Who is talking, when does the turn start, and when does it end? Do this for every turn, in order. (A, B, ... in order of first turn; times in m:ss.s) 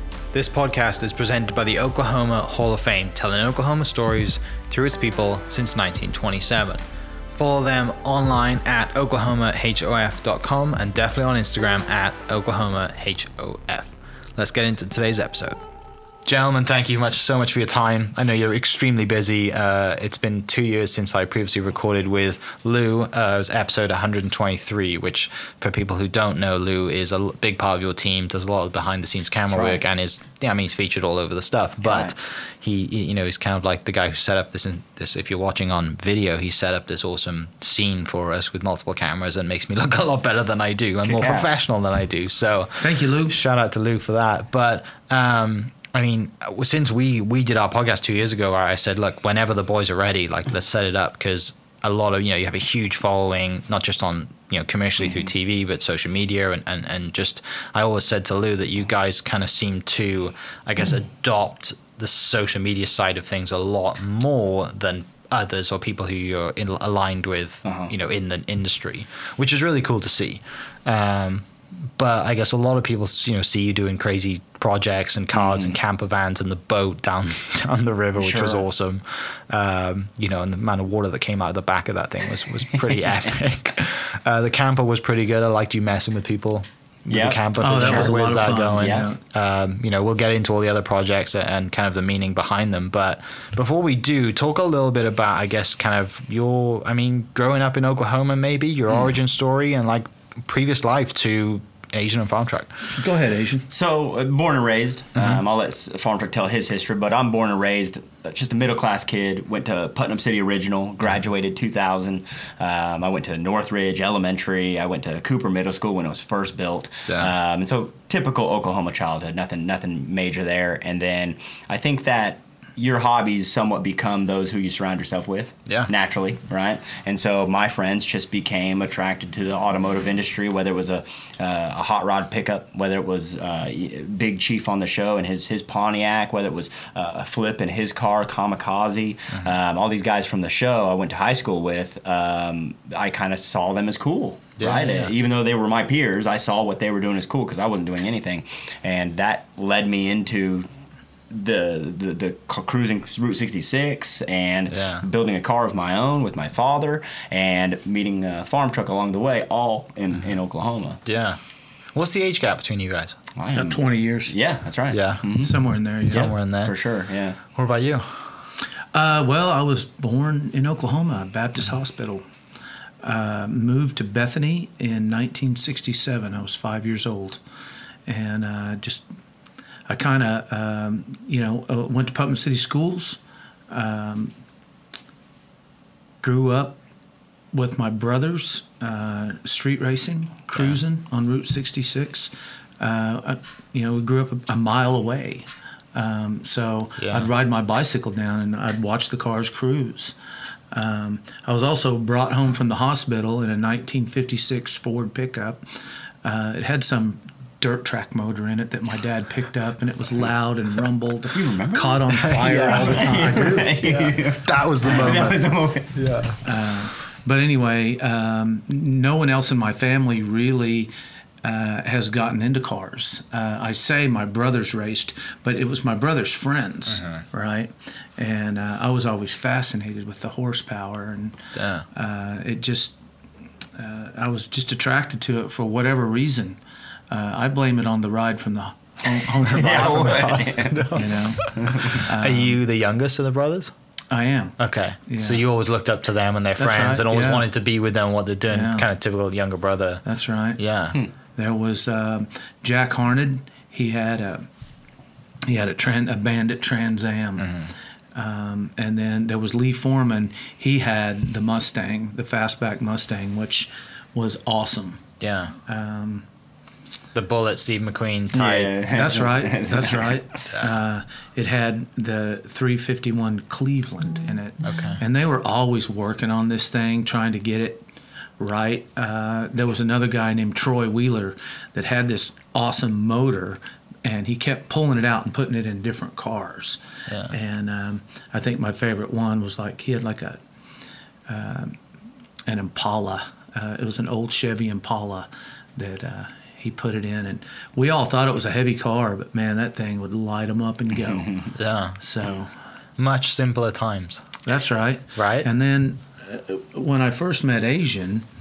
0:00.3-0:06.8 A
0:07.4-0:15.6 A
0:16.3-1:42.7 A
0:29.5-0:29.8 B
0:31.8-0:32.1 B
0:41.1-0:41.5 B
0:42.8-0:43.4 C
1:07.6-1:07.9 B
1:15.3-1:15.8 B
1:18.2-1:18.6 B
1:27.1-1:28.1 B
1:27.6-1:29.2 C
1:28.8-1:29.1 B
1:43.0-1:43.7 C
1:43.7-2:30.7 B
2:24.6-2:25.1 A
2:31.3-2:41.0 B
2:34.7-2:35.1 A
2:41.0-2:41.4 A
2:42.0-2:43.2 A
2:43.4-2:47.4 B
2:43.5-2:44.3 C
2:44.9-2:45.2 A
2:45.4-2:46.3 C
2:46.1-2:46.8 A
2:47.5-2:48.1 A
2:48.9-2:52.2 C
2:53.0-2:57.4 C
2:58.1-2:59.0 C
2:59.9-3:03.2 C
3:03.7-3:04.3 C
3:06.2-3:06.8 C
3:07.5-3:20.2 C
3:17.0-3:17.3 A
3:20.7-3:25.6 C
3:26.2-3:33.9 C
3:31.3-3:35.9 B
3:32.1-3:33.2 A
3:33.8-3:36.4 A
3:34.8-3:35.4 C
3:36.4-3:40.9 C
3:41.4-3:51.4 C
3:46.9-3:47.2 A
3:51.6-3:51.8 A
3:51.9-3:53.0 C
3:53.8-3:56.6 C
3:57.1-4:02.6 C
3:59.5-4:00.8 B
3:59.6-4:03.7 A
4:01.6-4:02.0 B
4:04.1-4:05.4 C
4:04.6-4:10.0 A
4:06.6-4:07.5 C
4:08.5-4:08.9 C
4:10.0-4:10.6 C
4:10.6-4:11.0 A
4:11.4-4:14.5 C
4:15.5-4:17.5 C
4:17.4-4:17.7 A
4:18.1-4:25.0 C
4:25.2-4:25.6 A
4:25.7-4:26.2 C
4:27.2-4:28.7 A
4:28.3-4:30.2 B
4:28.9-4:37.8 C
4:34.6-4:35.0 A
4:38.4-4:50.4 C
4:47.1-4:47.4 A
4:51.3-4:51.8 C
4:52.5-5:01.3 C
5:01.0-5:01.5 B
5:01.6-5:02.0 A
5:02.0-5:02.5 C
5:03.0-5:04.2 A
5:04.4-5:08.3 C
5:05.2-5:05.5 A